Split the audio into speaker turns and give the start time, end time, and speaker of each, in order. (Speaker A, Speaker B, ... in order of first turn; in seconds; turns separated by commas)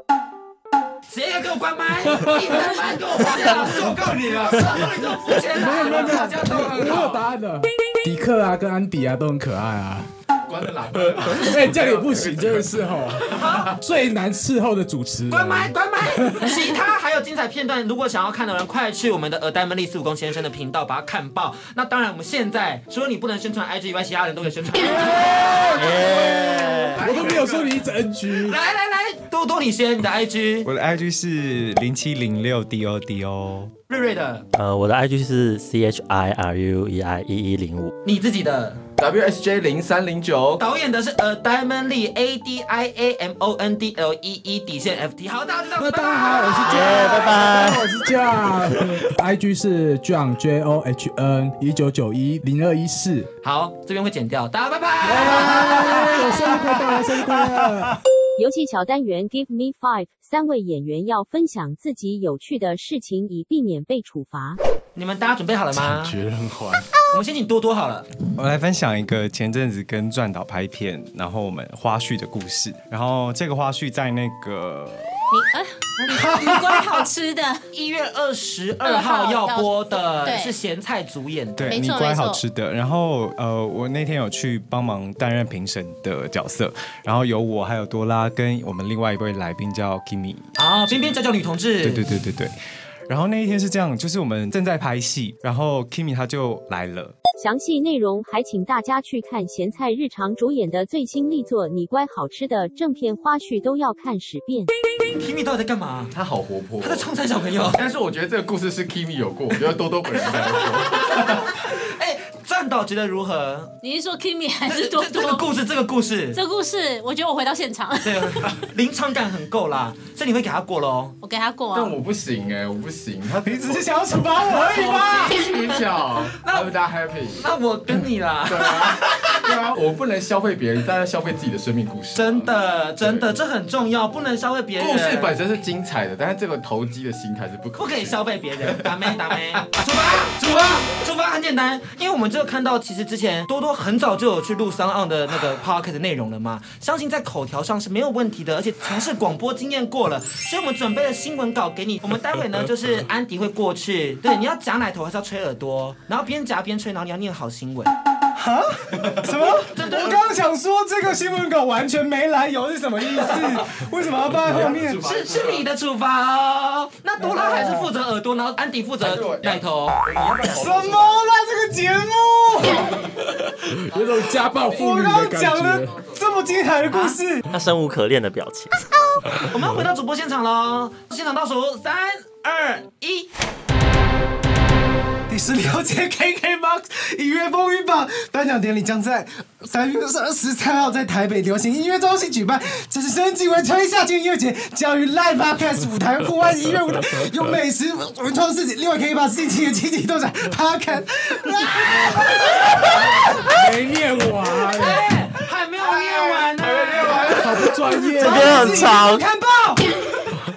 Speaker A: 1.1-7.2, Speaker B: 3.9-4.9, Speaker C: 5.5-10.1, Speaker B: 5.7-7.1, Speaker B: 10.5-13.7, Speaker C: 11.2-16.5, Speaker A: 13.3-13.7, Speaker A: 15.3-25.6, Speaker C: 24.9-28.6, Speaker D: 25.7-27.0, Speaker B: 26.9-27.8, Speaker A: 28.4-30.7, Speaker E: 30.6-33.7, Speaker A: 33.9-34.4, Speaker D: 34.5-37.9, Speaker A: 38.0-38.8, Speaker B: 39.0-40.6, Speaker A: 40.6-47.3, Speaker C: 45.8-53.3, Speaker D: 46.7-47.8, Speaker A: 53.4-56.5, Speaker C: 55.0-58.0, Speaker F: 58.4-64.6, Speaker A: 64.9-66.2, Speaker C: 65.7-66.9, Speaker A: 67.1-68.1, Speaker E: 68.3-75.1, Speaker G: 75.3-77.6, Speaker A: 76.0-77.1, Speaker A: 77.7-81.7, Speaker G: 78.8-80.5, Speaker E: 81.6-91.1, Speaker G: 81.7-82.4, Speaker A: 90.6-92.0, Speaker E: 91.8-97.2, Speaker F: 97.4-104.7, Speaker A: 105.2-106.1, Speaker B: 106.1-107.1, Speaker A: 106.8-107.8, Speaker B: 107.7-111.5, Speaker A: 110.2-113.7, Speaker G: 113.8-115.5, Speaker A: 114.7-116.4, Speaker G: 116.3-118.5, Speaker A: 118.0-121.2, Speaker G: 121.2-122.0, Speaker B: 121.7-123.9, Speaker E: 123.4-125.3, Speaker B: 124.5-127.4, Speaker A: 126.4-126.7, Speaker A: 127.3-129.5, Speaker B: 128.5-133.3, Speaker A: 132.1-135.3, Speaker B: 134.8-139.6, Speaker A: 137.8-157.9, Speaker E: 158.3-165.0, Speaker A: 159.5-160.3, Speaker B: 164.3-165.7, Speaker A: 165.0-170.0, Speaker E: 167.3-167.8, Speaker B: 169.0-171.2, Speaker E: 170.5-172.9, Speaker C: 173.8-176.0, Speaker E: 174.8-177.4, Speaker A: 176.9-177.2, Speaker D: 177.5-178.7, Speaker A: 179.3-183.3, Speaker E: 185.3-201.7, Speaker A: 201.6-203.6, Speaker C: 203.4-205.1, Speaker A: 204.7-207.7, Speaker B: 206.5-207.3, Speaker C: 207.2-208.9, Speaker D: 208.2-209.2, Speaker E: 208.5-209.2